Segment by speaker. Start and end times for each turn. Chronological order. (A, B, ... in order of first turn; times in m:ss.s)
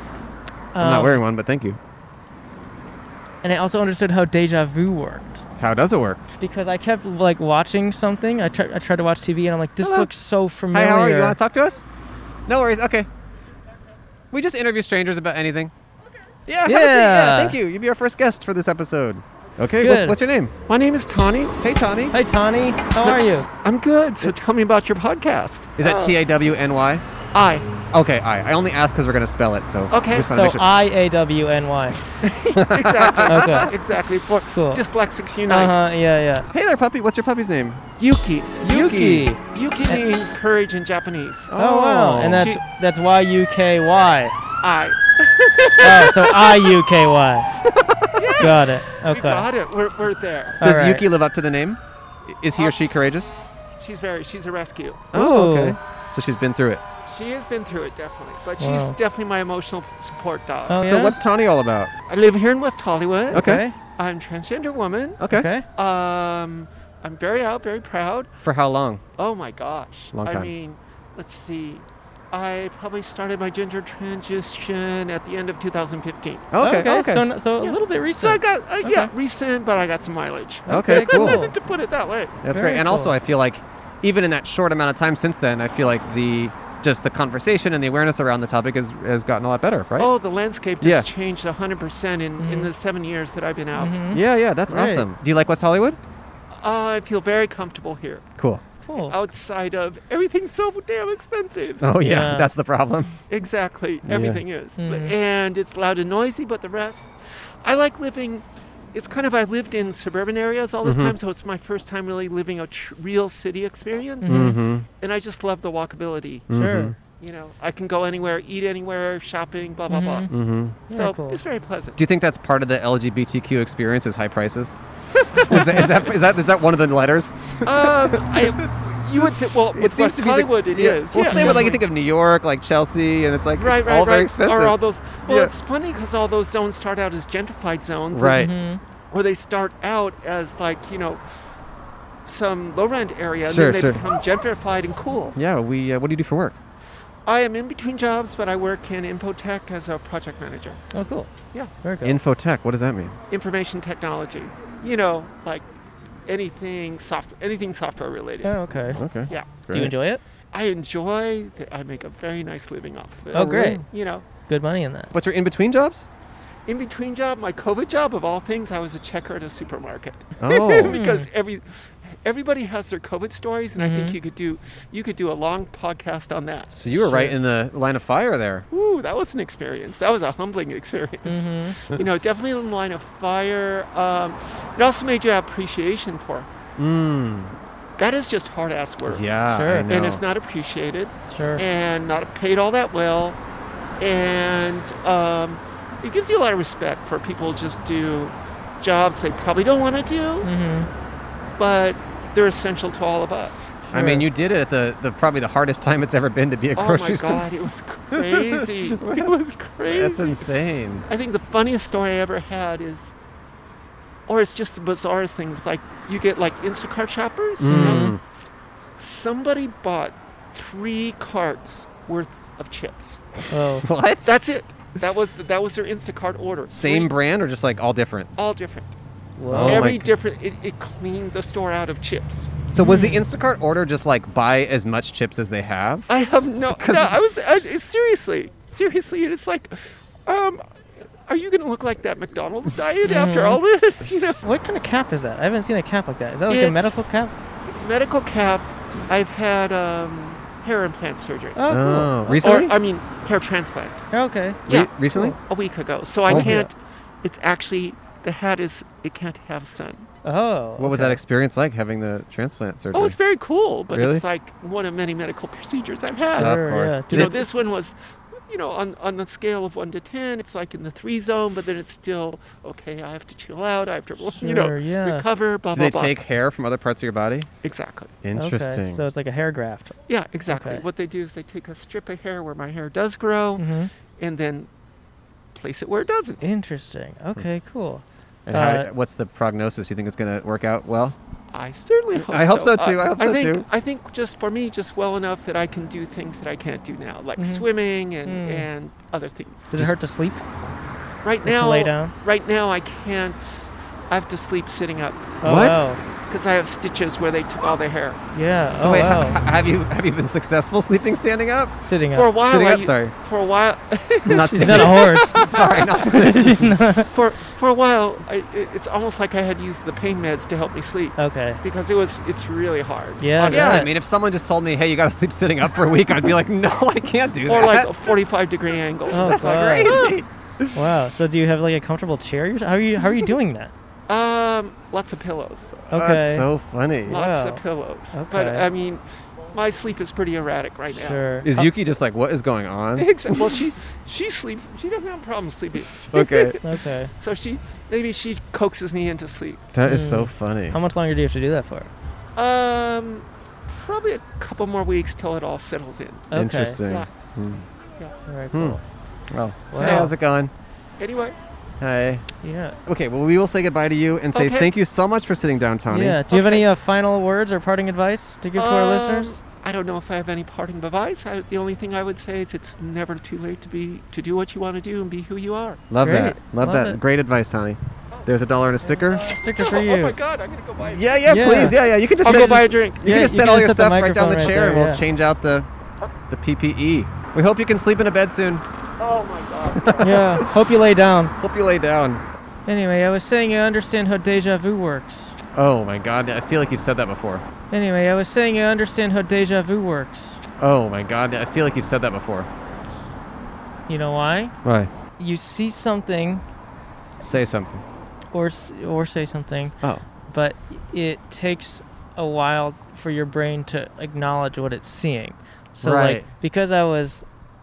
0:00.7-0:01.2 A
0:00.8-0:01.8 B
0:03.4-0:05.4 A
0:05.6-0:06.2 B
0:06.4-0:11.4 A
0:09.8-0:10.1 B
0:10.7-0:11.8 B
0:12.4-0:13.1 B
0:14.3-0:15.7 B
0:16.4-0:20.5 B
0:16.6-0:17.6 A
0:19.8-0:20.2 A
0:20.7-0:21.6 C
0:21.6-0:22.2 B
0:22.1-0:23.5 A
0:23.0-0:26.2 C
0:25.8-0:27.0 B
0:27.3-0:27.7 C
0:27.9-0:30.7 B
0:29.9-0:30.4 C
0:30.3-0:32.0 A
0:32.2-0:35.8 C
0:32.5-0:33.7 B
0:33.3-0:33.7 A
0:34.5-0:34.8 A
0:35.5-0:36.5 A
0:36.5-0:37.8 B
0:38.0-0:38.8 C
0:38.6-0:39.3 B
0:38.6-0:40.0 A
0:39.4-0:41.5 C
0:41.5-0:42.5 B
0:41.5-0:44.4 A
0:42.3-0:42.6 C
0:44.6-0:46.3 C
0:45.8-0:47.5 A
0:47.6-0:48.5 B
0:48.1-0:50.6 C
0:48.4-0:49.5 A
0:50.6-0:51.1 A
0:50.6-0:53.3 B
0:53.8-0:55.1 C
0:55.1-0:56.8 B
0:55.1-0:55.8 A
0:57.0-1:00.8 C
0:58.6-0:59.0 A
1:00.7-1:01.2 A
1:00.8-1:01.9 B
1:02.1-1:05.2 C
1:03.3-1:03.6 B
1:03.3-1:03.8 A
1:05.2-1:05.5 B
1:05.3-1:05.6 A
1:05.8-1:08.3 C
1:08.4-1:09.0 B
1:09.2-1:16.5 C
1:10.1-1:10.5 B
1:16.5-1:17.2 B
1:16.6-1:19.1 A
1:17.6-1:22.4 C
1:20.7-1:21.5 A
1:20.7-1:21.4 B
1:22.4-1:30.1 B
1:22.5-1:23.1 A
1:30.0-1:34.0 C
1:30.8-1:31.1 B
1:32.4-1:32.7 A
1:33.8-1:35.1 A
1:34.1-1:36.0 B
1:36.5-1:38.3 C
1:38.4-1:38.6 B
1:38.8-1:39.2 A
1:39.0-1:41.8 C
1:41.8-1:43.2 B
1:42.0-1:42.5 A
1:43.3-1:56.5 C
1:44.0-1:44.4 B
1:44.8-1:45.1 A
1:50.8-1:51.2 B
1:54.2-1:54.6 A
1:54.2-1:54.8 B
1:56.5-1:57.0 B
1:56.5-1:56.9 A
1:57.1-2:00.4 C
1:59.9-2:00.3 A
2:00.3-2:00.8 B
2:00.9-2:01.4 A
2:00.9-2:02.0 C
2:02.0-2:08.5 B
2:05.5-2:06.1 C
2:07.6-2:11.8 C
2:09.7-2:15.5 B
2:11.3-2:11.7 A
2:13.6-2:18.5 C
2:18.1-2:18.5 B
2:18.4-2:18.8 A
2:19.1-2:21.2 C
2:22.2-2:25.4 C
2:23.4-2:24.0 B
2:25.3-2:26.6 B
2:27.2-2:30.8 C
2:30.9-2:31.3 A
2:31.8-2:32.2 A
2:32.0-2:33.1 B
2:33.3-2:35.7 C
2:36.2-2:38.6 C
2:38.4-2:39.0 A
2:38.9-2:39.9 B
2:39.3-2:39.6 C
2:39.7-2:40.2 A
2:40.5-2:44.2 C
2:43.3-2:43.8 A
2:43.3-2:43.8 B
2:44.5-2:45.1 A
2:45.1-2:46.0 B
2:46.7-2:56.8 C
2:50.4-2:51.0 B
2:50.9-2:51.3 A
2:53.8-2:54.2 A
2:56.7-2:58.7 B
2:57.0-2:57.3 A
2:58.7-3:06.5 C
3:01.2-3:01.7 A
3:06.8-3:07.5 B
3:08.0-3:09.3 C
3:09.0-3:10.2 B
3:09.5-3:09.9 A
3:09.9-3:13.4 C
3:11.3-3:11.6 A
3:14.0-3:20.5 C
3:20.4-3:20.9 A
3:21.6-3:23.9 C
3:23.9-3:24.2 A
3:23.9-3:27.5 B
3:26.8-3:30.5 C
3:28.1-3:29.3 B
3:29.9-3:31.1 B
3:31.1-3:33.1 C
3:34.3-3:38.2 C
3:37.6-3:38.2 B
3:37.6-3:38.1 A
3:39.0-3:43.2 C
3:43.5-3:43.8 A
3:43.8-3:44.3 B
3:44.2-3:47.1 C
3:46.7-3:48.3 B
3:48.4-3:48.9 C
3:49.4-3:49.9 A
3:49.5-3:50.1 B
3:49.6-3:52.6 C
3:52.7-3:56.1 B
3:52.8-3:53.2 A
3:56.1-4:00.6 C
3:56.7-3:57.2 B
4:01.3-4:04.4 C
4:03.0-4:03.6 A
4:04.4-4:07.3 A
4:06.5-4:07.1 C
4:07.6-4:11.6 C
4:11.6-4:12.6 A
4:11.7-4:12.7 B
4:12.4-4:14.0 C
4:14.1-4:14.6 A
4:14.6-4:20.1 C
4:14.7-4:15.4 B
4:15.1-4:15.4 A
4:16.3-4:16.6 B
4:16.3-4:16.7 A
4:20.2-4:21.2 A
4:20.8-4:23.2 B
4:22.9-4:26.6 C
4:23.9-4:24.2 B
4:26.3-4:27.4 B
4:26.4-4:27.4 A
4:27.1-4:36.2 C
4:34.4-4:35.2 A
4:35.7-4:37.5 B
4:37.6-4:38.1 C
4:38.2-4:39.0 B
4:38.4-4:39.9 A
4:40.1-4:44.7 C
4:40.5-4:40.8 A
4:43.6-4:43.9 A
4:45.5-4:46.4 C
4:46.4-4:48.9 A
4:48.5-4:51.2 B
4:51.5-4:59.7 C
4:52.1-4:53.6 B
4:57.4-4:57.6 A
4:58.2-4:58.7 A
4:59.7-5:00.4 A
5:01.2-5:05.6 C
5:01.4-5:02.1 A
5:05.4-5:05.9 B
5:05.4-5:06.0 A
5:06.2-5:08.2 C
5:08.3-5:09.4 A
5:08.7-5:11.8 B
5:11.8-5:12.3 A
5:12.1-5:16.1 C
5:12.4-5:13.1 B
5:14.2-5:16.8 B
5:14.5-5:17.1 A
5:17.1-5:23.8 C
5:21.2-5:21.6 A
5:23.2-5:23.9 A
5:23.4-5:27.9 B
5:27.4-5:30.2 C
5:29.1-5:30.0 A
5:29.1-5:30.9 B
5:30.7-5:33.7 A
5:34.1-5:35.8 C
5:35.9-5:36.4 A
5:35.9-5:37.2 B
5:37.1-5:37.6 A
5:37.1-5:41.4 C
5:38.1-5:38.6 A
5:41.0-5:41.7 A
5:41.4-5:43.6 B
5:43.0-5:49.7 C
5:46.0-5:46.6 B
5:46.6-5:47.1 A
5:49.7-5:50.8 B
5:49.8-5:51.9 A
5:52.4-5:57.1 C
5:56.3-5:56.8 A
5:56.3-5:57.6 B
5:58.3-5:58.8 A
5:58.5-6:00.5 B
5:59.7-6:00.1 A
5:59.7-6:00.1 C
6:01.0-6:01.4 C
6:01.8-6:02.2 B
6:02.4-6:02.8 A
6:02.8-6:06.2 B
6:04.3-6:04.7 C
6:05.9-6:09.4 A
6:06.3-6:06.6 C
6:08.6-6:15.8 C
6:15.9-6:19.2 B
6:16.0-6:17.0 A
6:18.8-6:20.1 A
6:19.2-6:23.2 C
6:20.8-6:25.7 B
6:21.3-6:21.8 A
6:23.0-6:25.0 A
6:26.3-6:28.6 B
6:29.0-6:30.2 C
6:29.7-6:30.5 B
6:30.0-6:31.3 A
6:31.4-6:32.2 B
6:32.7-6:35.3 A
6:35.5-6:37.4 B
6:37.7-6:40.4 A
6:40.6-6:42.5 B
6:43.9-6:44.5 A
6:44.6-6:44.9 B
6:45.2-6:46.4 A
6:47.2-6:47.8 B
6:48.3-6:49.8 A
6:50.3-6:57.2 A
6:55.8-6:56.3 B